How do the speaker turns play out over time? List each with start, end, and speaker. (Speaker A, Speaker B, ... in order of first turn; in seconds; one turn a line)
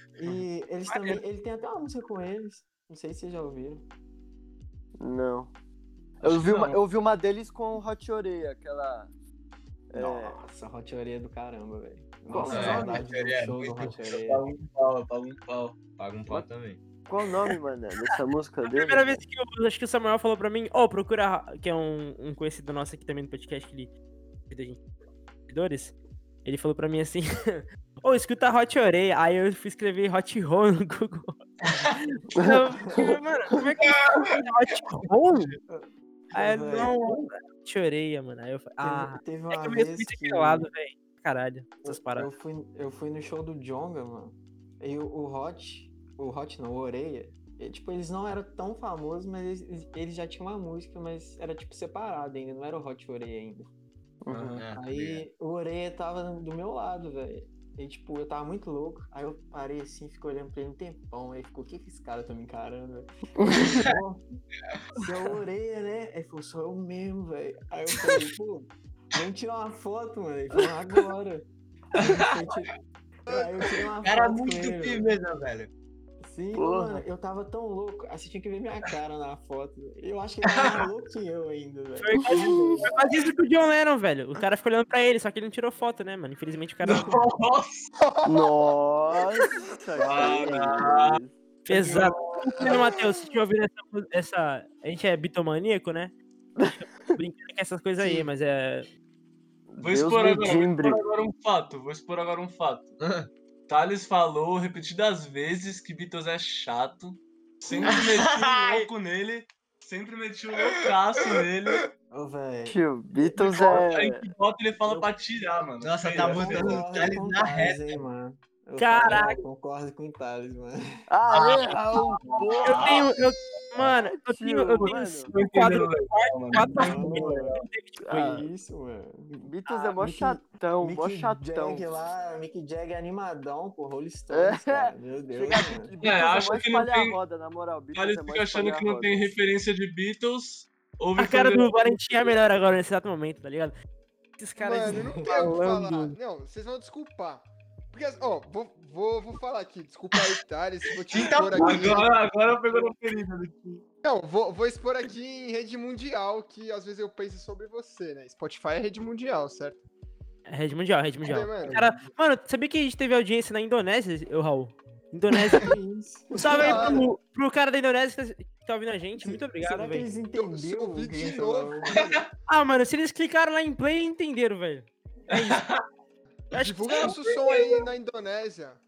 Speaker A: 0.2-3.8
Speaker B: 0.9-1.2
Speaker C: 5.0-5.5
Speaker C: 6.2-9.1
Speaker D: 6.2-6.8
Speaker C: 9.9-10.4
Speaker A: 9.9-14.4
Speaker D: 12.3-13.0
Speaker E: 12.5-14.0
Speaker C: 12.5-12.8
Speaker D: 13.8-15.8
Speaker E: 16.0-16.8
Speaker C: 17.1-19.2
Speaker B: 18.6-23.9
Speaker B: 24.5-24.8
Speaker B: 25.5-35.6
Speaker A: 35.7-37.0
Speaker B: 36.3-42.3
Speaker A: 38.8-40.7
Speaker A: 41.9-53.7
Speaker C: 54.2-54.5
Speaker D: 54.3-54.6
Speaker A: 54.4-64.2
Speaker E: 54.5-55.2
Speaker C: 63.4-63.7
Speaker A: 65.0-72.7
Speaker A: 73.2-75.1
Speaker F: 73.3-73.7
Speaker E: 74.0-75.7
Speaker A: 76.2-82.8
Speaker C: 76.5-77.0
Speaker D: 80.5-80.8
Speaker B: 82.0-87.2
Speaker C: 82.3-82.8
Speaker D: 86.8-87.9
Speaker F: 88.0-88.7
Speaker C: 88.2-91.3
Speaker D: 90.0-92.8
Speaker B: 91.7-96.1
Speaker F: 92.6-93.0
Speaker B: 97.1-98.9
Speaker C: 98.0-98.2
Speaker C: 99.7-101.0
Speaker D: 99.8-103.0
Speaker E: 103.0-103.3
Speaker D: 103.7-111.9
Speaker E: 107.8-108.9
Speaker A: 112.1-112.8
Speaker C: 112.7-114.3
Speaker D: 113.3-117.0
Speaker A: 113.5-113.8
Speaker E: 115.8-118.0
Speaker A: 116.2-121.0
Speaker B: 118.8-119.4
Speaker C: 121.1-123.1
Speaker E: 121.3-121.8
Speaker D: 121.4-123.1
Speaker B: 122.6-128.4
Speaker C: 123.8-125.3
Speaker D: 124.8-127.6
Speaker A: 126.7-127.6
Speaker C: 128.0-128.4
Speaker A: 128.1-135.9
Speaker C: 129.4-131.9
Speaker C: 134.3-139.3
Speaker D: 136.0-137.2
Speaker D: 137.9-142.3
Speaker B: 141.2-143.7
Speaker B: 144.4-146.2
Speaker F: 144.6-152.1
Speaker A: 144.9-145.3
Speaker E: 151.1-152.1
Speaker D: 151.5-153.8
Speaker F: 154.0-159.8
Speaker B: 160.5-165.8
Speaker F: 161.2-161.8
Speaker A: 165.5-167.1
Speaker B: 166.3-170.1
Speaker F: 166.6-167.0
Speaker A: 169.2-172.0
Speaker F: 170.3-172.2
Speaker B: 172.5-175.6
Speaker D: 175.3-175.8
Speaker B: 176.5-177.8
Speaker F: 176.5-178.8